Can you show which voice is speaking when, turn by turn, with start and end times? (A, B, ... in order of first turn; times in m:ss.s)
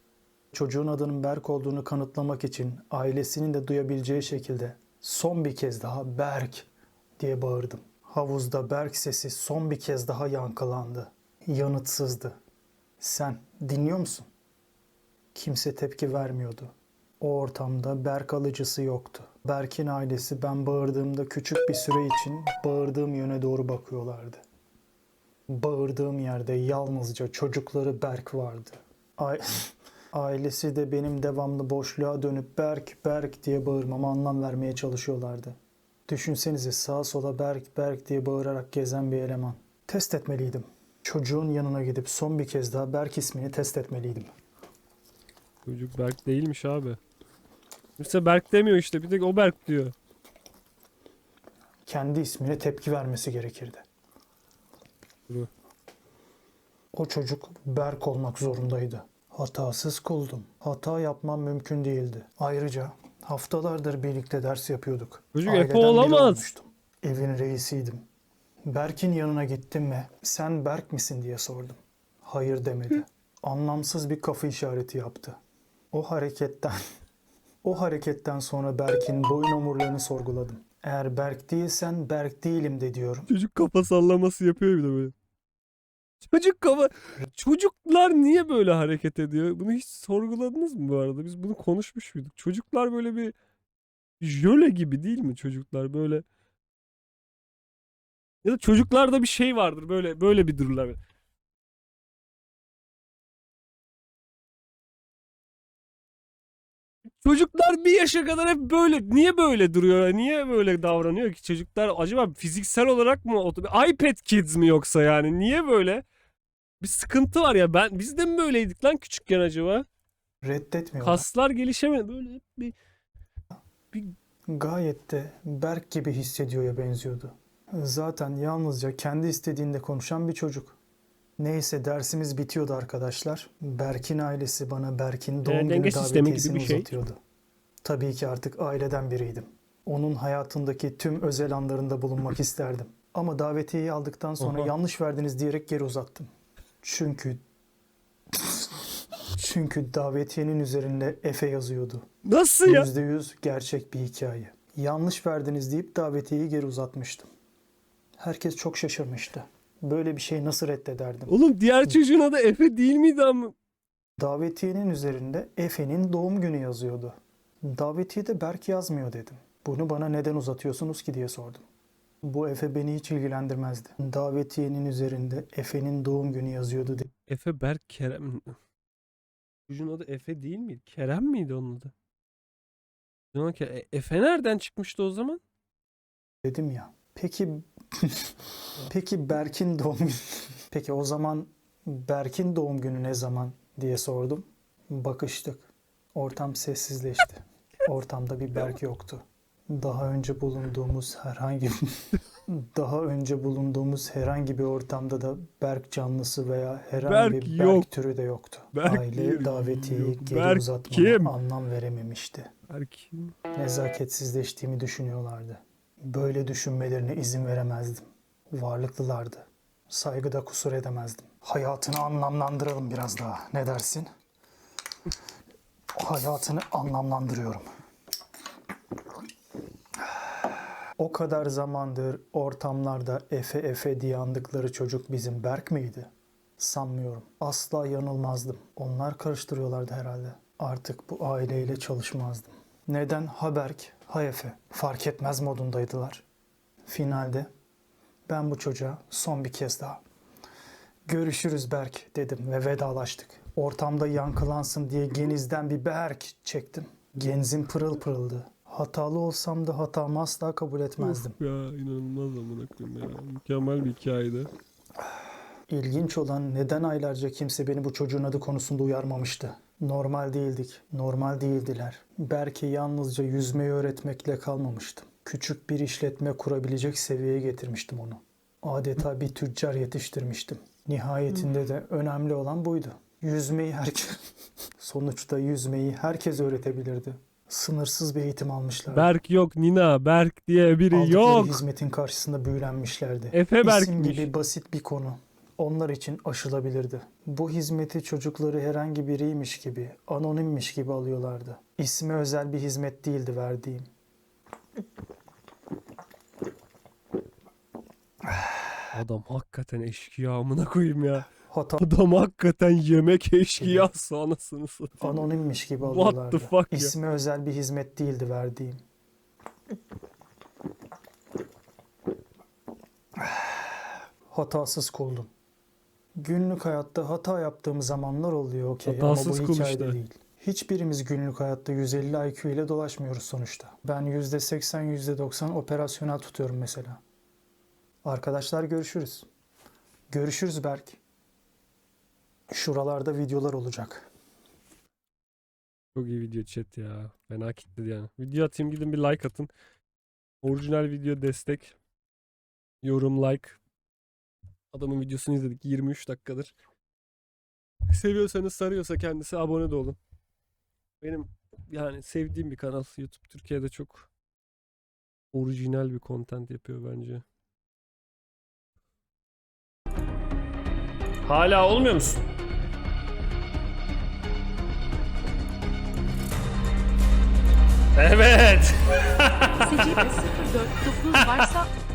0:00.5-0:12.4 A
0:13.0-0:14.3 A
0:15.3-0:24.4 A
0:25.5-0:35.6 A
0:36.1-0:44.3 A
0:45.6-0:47.0 B
0:48.0-0:49.9 B
0:51.9-0:53.8 A
0:56.9-1:08.0 A
1:05.3-1:06.5 B
1:08.6-1:15.4 A
1:15.9-1:16.8 A
1:17.6-1:23.3 A
1:23.3-1:25.1 B
1:26.2-1:33.4 B
1:34.2-1:36.2 B
1:38.4-1:41.0 B
1:47.2-1:56.0 B
1:56.8-1:59.9 B
2:00.4-2:01.3 A
2:01.0-2:02.8 B
2:04.5-2:10.8 A
2:11.4-2:17.2 A
2:15.4-2:17.0 B
2:17.8-2:26.3 A
2:24.4-2:24.7 B
2:26.8-2:27.4 A
2:28.3-2:32.1 A
2:32.2-2:32.9 B
2:32.6-2:37.3 A
2:38.2-2:41.9 A
2:41.3-2:43.6 B
2:44.2-2:51.6 A
2:52.2-2:57.1 A
2:57.2-2:58.6 B
2:59.7-3:01.9 B
3:03.3-3:05.4 B
3:06.4-3:32.5 A
3:27.0-3:27.9 B
3:28.7-3:31.4 B
3:32.7-3:33.3 B
3:33.5-3:44.1 A
3:46.0-3:47.6 A
3:51.0-4:06.2 A
4:06.9-4:07.5 A
4:08.3-4:10.0 A
4:11.1-4:21.4 A
4:21.0-4:24.5 B
4:25.7-4:44.2 A
4:44.8-4:49.1 A
4:48.9-4:51.6 B
4:50.9-5:03.9 A
4:53.3-4:54.3 B
5:08.2-5:08.9 A
5:08.9-5:15.3 B
5:11.5-5:11.9 A
5:13.6-5:13.9 A
5:15.0-5:18.8 A
5:15.8-5:16.9 B
5:23.2-5:25.3 A
5:26.2-5:37.0 A
5:28.8-5:30.0 B
5:38.0-5:39.3 A
5:40.1-5:41.0 A
5:42.5-5:44.1 A
5:46.0-5:49.5 B
5:50.4-5:51.8 B
5:52.8-5:53.6 B
5:54.7-5:56.5 B
5:57.9-6:00.0 B
6:01.0-6:04.1 B
6:05.3-6:07.2 B
6:11.2-6:12.2 B
6:18.0-6:20.2 B
6:19.6-6:21.7 C
6:21.1-6:21.5 B